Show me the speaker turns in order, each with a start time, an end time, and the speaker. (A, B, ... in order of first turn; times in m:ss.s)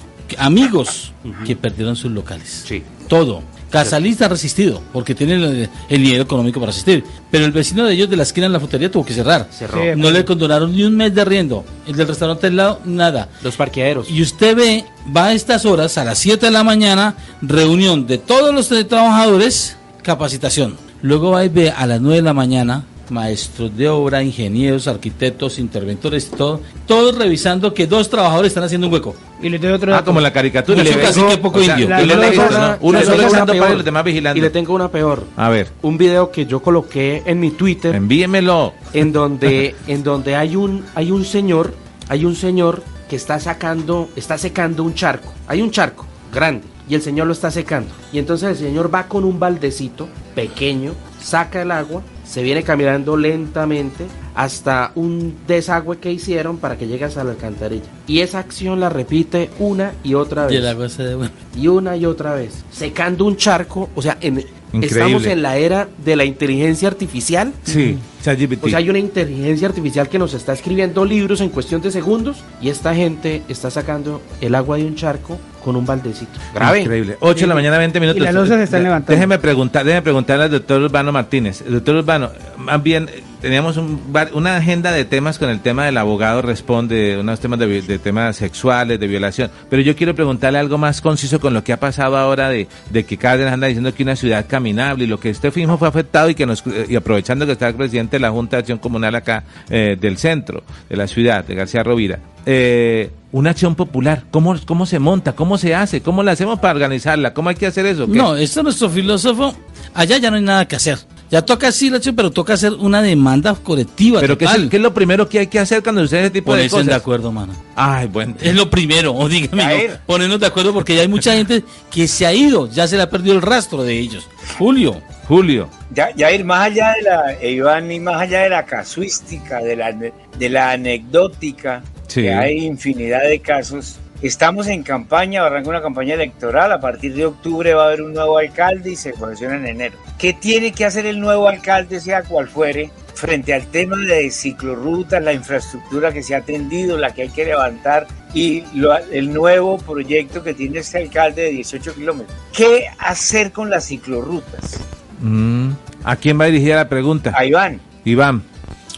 0:00.3-0:13.3 A
0:01.2-0:01.5 B
0:02.6-0:02.9 B
0:09.5-0:10.0 B
0:09.7-0:10.3 C
0:13.4-0:14.1 B
0:14.1-0:29.2 A
0:29.4-0:33.5 C
0:29.9-0:34.5 D
0:30.7-0:32.4 A
0:31.0-0:31.4 B
0:32.0-0:35.3 B
0:35.4-0:35.7 D
0:35.8-0:38.0 B
0:37.9-0:38.8 D
0:38.9-1:00.7 B
1:00.4-1:01.4 A
1:01.6-1:07.6 B
1:04.7-1:05.3 D
1:07.7-1:08.8 D
1:07.7-1:08.0 C
1:08.6-1:16.9 B
1:16.6-1:48.3 D
1:17.3-1:19.3 C
1:48.1-1:54.7 A
1:54.2-1:57.0 D
1:56.4-1:57.6 A
1:57.8-1:58.6 D
1:58.4-2:05.0 A
1:59.6-2:00.0 E
2:05.3-2:05.7 D
2:05.9-2:34.8 E
2:12.1-2:12.5 D
2:35.2-2:37.4 D
2:37.3-2:37.8 E
2:38.0-2:38.4 D